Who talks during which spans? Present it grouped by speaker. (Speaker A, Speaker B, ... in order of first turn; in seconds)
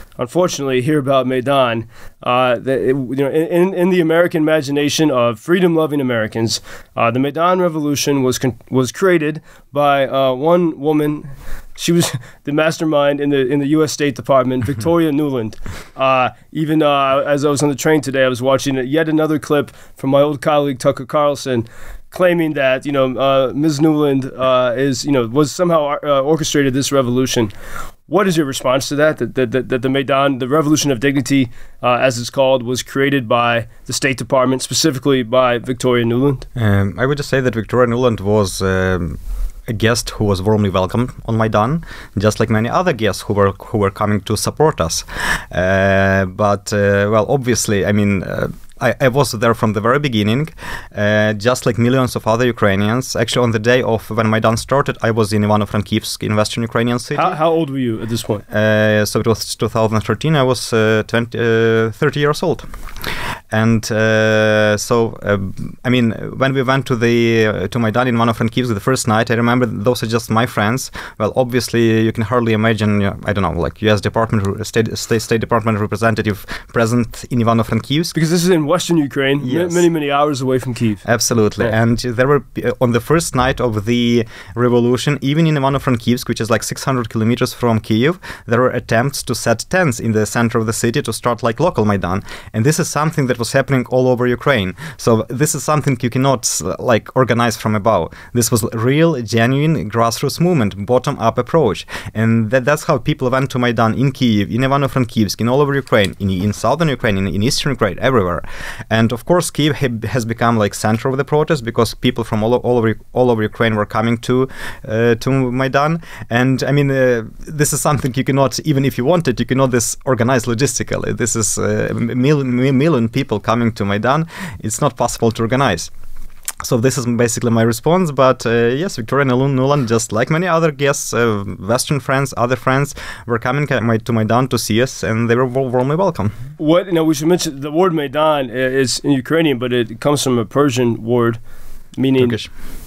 Speaker A: 0.2-27.5, 28.1-36.5, 57.1-58.4, 78.1-81.0, 136.6-141.4, 141.9-142.4
Speaker B: 36.6-57.4, 58.5-62.7, 63.5-78.2, 79.4-79.9, 81.0-125.9, 126.6-136.4, 142.2-142.5